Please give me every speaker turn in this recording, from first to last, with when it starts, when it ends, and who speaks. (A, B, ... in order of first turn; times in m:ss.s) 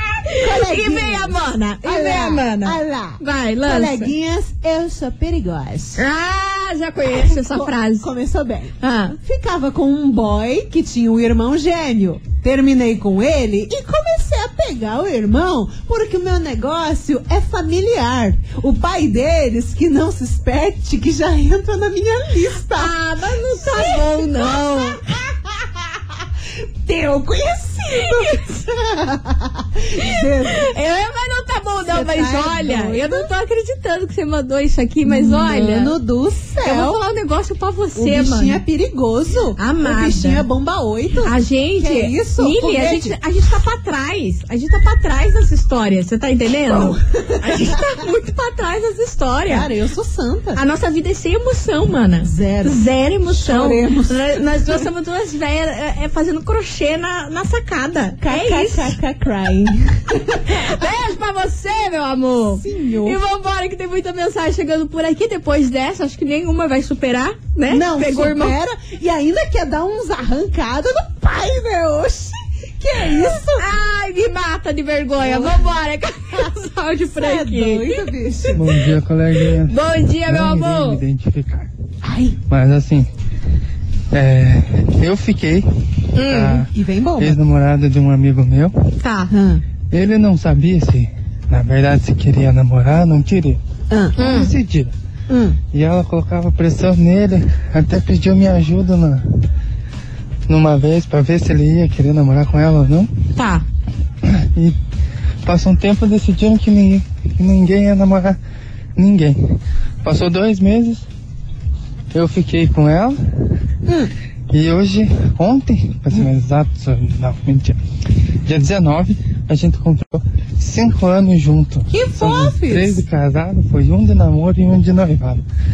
0:00.3-0:04.1 A
0:00.3-0:06.0 B
0:06.0-0:08.1 A
0:07.1-0:22.9 B
0:08.8-0:09.2 A
0:22.8-0:25.0 A
0:23.6-0:25.7 B
0:26.8-0:30.7 B
0:27.9-0:28.5 A
0:30.0-0:36.0 A
0:31.8-0:33.3 B
0:35.1-0:37.0 B
0:36.6-0:38.6 A
0:38.0-0:43.2 B
0:39.6-0:40.4 A
0:41.2-0:49.7 A
0:46.7-0:47.8 B
0:49.5-0:50.6 B
0:50.6-0:58.9 A
0:52.2-0:54.4 B
0:58.2-1:00.9 B
1:00.5-1:08.6 A
1:02.6-1:03.2 B
1:07.7-1:13.7 B
1:13.6-1:18.0 A
1:15.2-1:15.7 B
1:17.2-1:18.7 B
1:18.6-1:21.7 C
1:19.4-1:21.0 A
1:22.0-1:22.4 B
1:22.5-1:23.1 C
1:24.1-1:28.9 C
1:26.2-1:26.7 A
1:26.7-1:27.4 B
1:29.0-1:29.3 A
1:29.3-1:29.6 B
1:29.9-1:33.6 C
1:33.9-1:34.2 B
1:34.2-1:34.9 C
1:34.2-1:34.5 A
1:35.3-1:35.6 B
1:35.7-1:39.3 C
1:40.5-1:43.1 C
1:43.4-1:43.6 A
1:44.2-1:44.8 C
1:45.4-1:48.4 C
1:49.0-1:49.4 C
1:50.0-1:51.0 C
1:52.1-1:53.2 C
1:53.8-1:54.1 B
1:54.5-1:57.8 C
1:58.5-2:05.4 C
2:01.9-2:03.0 B